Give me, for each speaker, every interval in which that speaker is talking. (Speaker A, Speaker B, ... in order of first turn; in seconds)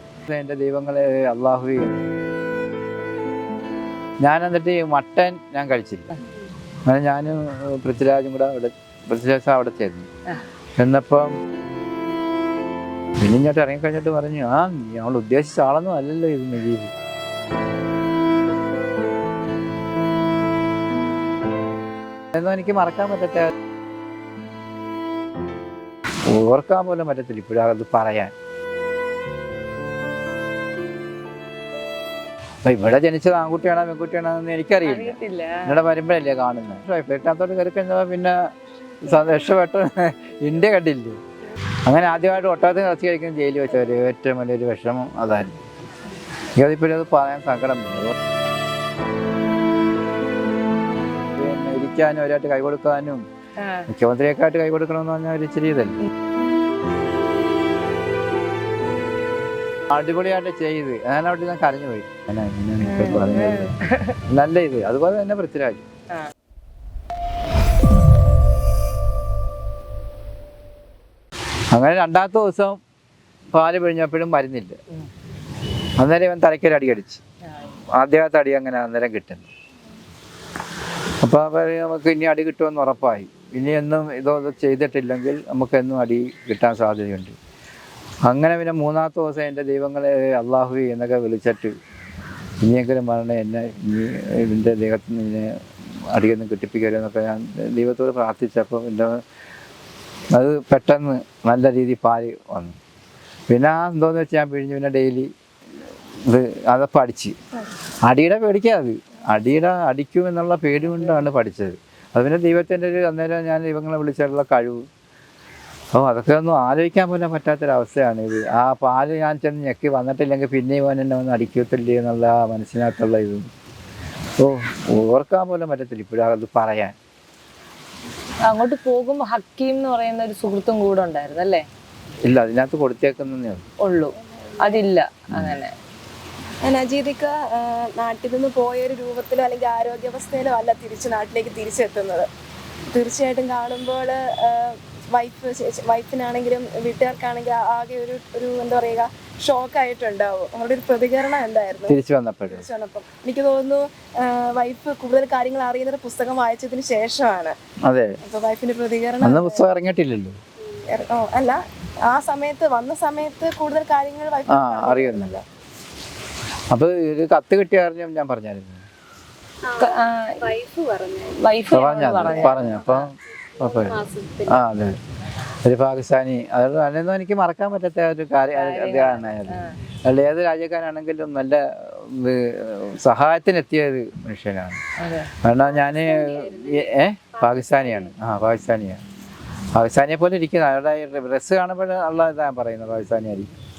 Speaker A: 0.3-1.9, 4.2-6.2, 6.8-10.1, 10.8-11.3, 13.2-16.9, 22.3-23.5, 26.3-28.3, 32.6-38.4, 39.0-41.2, 41.9-45.6, 46.5-48.1, 51.3-53.2, 53.9-56.0, 59.9-63.7, 64.3-65.8, 71.7-72.8, 73.5-74.8, 76.0-77.2, 77.9-79.5, 81.2-87.3, 88.2-91.7, 92.6-95.5, 96.1-99.2, 100.3-102.8, 103.5-105.3, 106.2-107.3, 108.0-114.8, 115.9-123.5, 124.4-126.9, 132.2-133.7, 135.3-135.6, 151.9-152.7, 157.9-158.2, 159.2-160.4, 164.5-165.4, 166.7-168.8, 171.7-174.9, 175.6-184.8, 185.4-189.0, 189.7-193.5
Speaker B: 34.8-35.8, 53.6-53.9, 62.8-64.2, 77.4-77.7, 110.9-111.2, 128.5-131.7, 133.8-135.7, 169.8-170.6, 171.2-173.1, 178.5-179.8, 185.0-185.3
Speaker C: 136.6-142.3, 142.9-151.9, 152.5-157.6, 158.2-159.6, 160.9-165.4, 173.8-174.5